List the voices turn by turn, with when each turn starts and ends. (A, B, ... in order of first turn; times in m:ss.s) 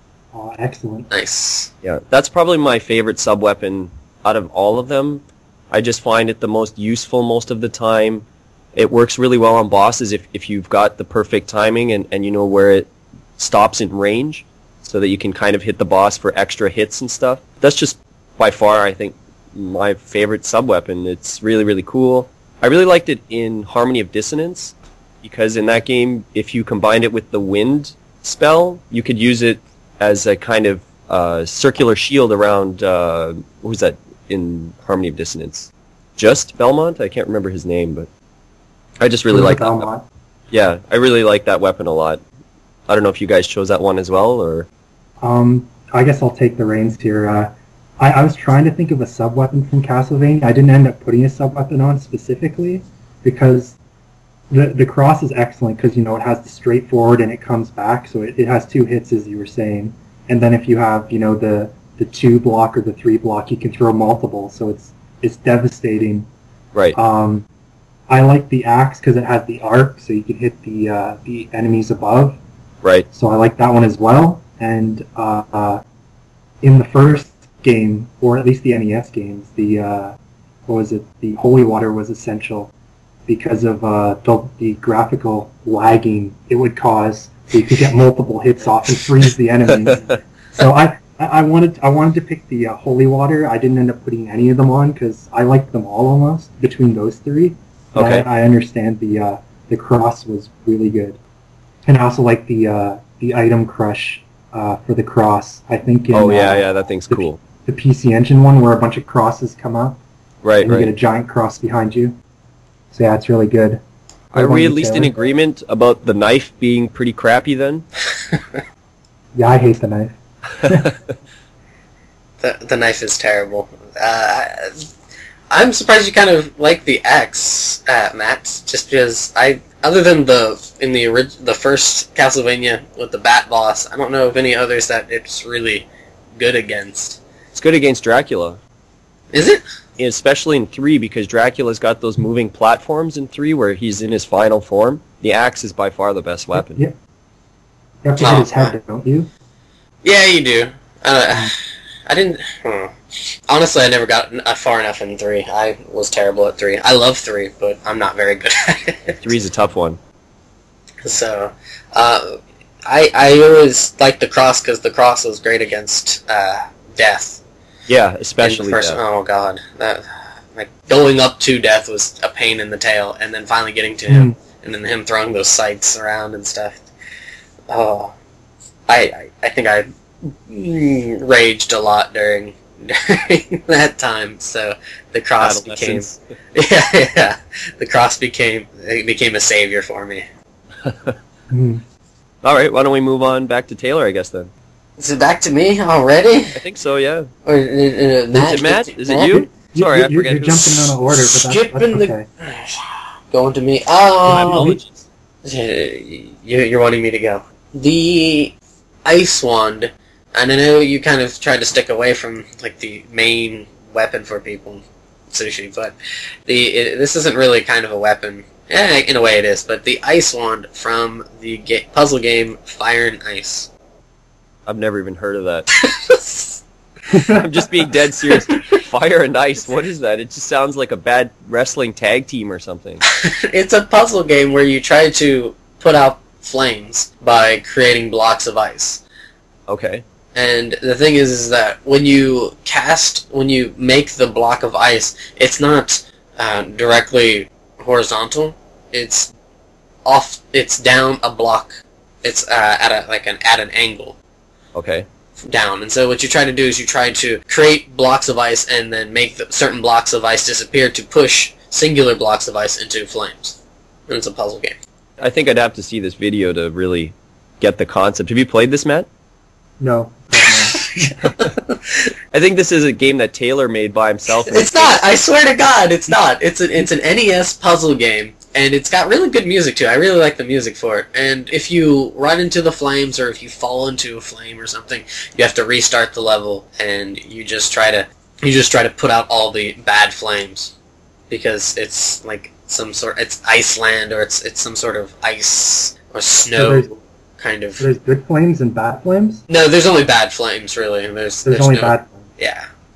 0:00.3-0:01.1 A
0:01.1-0:01.7 B
0:01.8-0:38.1 C
0:39.0-0:39.9 C
0:39.3-0:40.0 A
0:40.5-0:42.2 C
0:42.9-0:44.7 C
0:45.2-0:53.8 A
0:54.5-1:06.3 A
1:06.9-1:07.4 A
1:08.1-1:12.4 A
1:13.1-1:15.8 A
1:16.6-1:20.2 A
1:20.7-1:22.7 A
1:23.3-1:41.2 A
1:29.8-1:30.2 C
1:37.9-1:38.2 C
1:41.8-1:50.0 A
1:46.1-1:47.4 C
1:50.4-1:50.9 C
1:50.6-1:52.2 A
1:52.9-1:53.8 A
1:54.3-1:57.8 C
1:54.3-1:55.1 A
1:58.2-1:58.6 B
1:59.3-2:00.8 A
2:00.6-2:01.0 C
2:02.4-2:04.9 B
2:05.5-2:17.2 B
2:17.5-2:18.6 C
2:19.3-2:19.6 B
2:20.0-2:26.8 C
2:26.5-2:27.0 A
2:28.0-2:29.3 A
2:28.2-2:28.8 B
2:30.0-2:31.6 B
2:32.1-2:33.0 B
2:33.5-2:39.3 B
2:39.2-2:40.0 C
2:41.0-2:47.4 B
2:47.9-2:49.0 C
2:48.4-2:56.8 B
2:54.1-2:54.3 A
2:57.7-2:58.1 B
2:58.9-3:10.2 B
3:05.4-3:06.2 C
3:10.8-3:11.2 C
3:11.5-3:11.8 A
3:12.4-3:14.5 C
3:15.0-3:16.6 B
3:16.5-3:17.3 C
3:17.4-3:19.5 B
3:18.3-3:20.9 C
3:19.7-3:22.2 A
3:21.1-3:22.8 B
3:23.3-3:24.7 B
3:24.3-3:24.8 A
3:24.3-3:25.0 C
3:25.4-3:35.9 B
3:36.4-3:43.7 B
3:44.6-3:45.7 C
3:45.8-3:46.6 B
3:47.1-3:47.4 A
3:47.2-3:53.0 C
3:48.3-3:48.8 B
3:53.1-3:59.0 B
3:59.7-4:00.0 C
4:00.3-4:09.3 B
4:10.0-4:14.2 B
4:14.7-4:15.0 C
4:15.4-4:23.6 B
4:24.1-4:24.8 B
4:25.2-4:29.1 C
4:29.8-4:30.8 A
4:30.7-4:32.0 B
4:32.3-4:35.0 C
4:34.4-4:50.7 B
4:51.3-4:57.8 B
4:56.5-4:56.9 A
4:57.8-4:59.4 A
4:59.5-5:02.7 B
5:01.4-5:02.3 A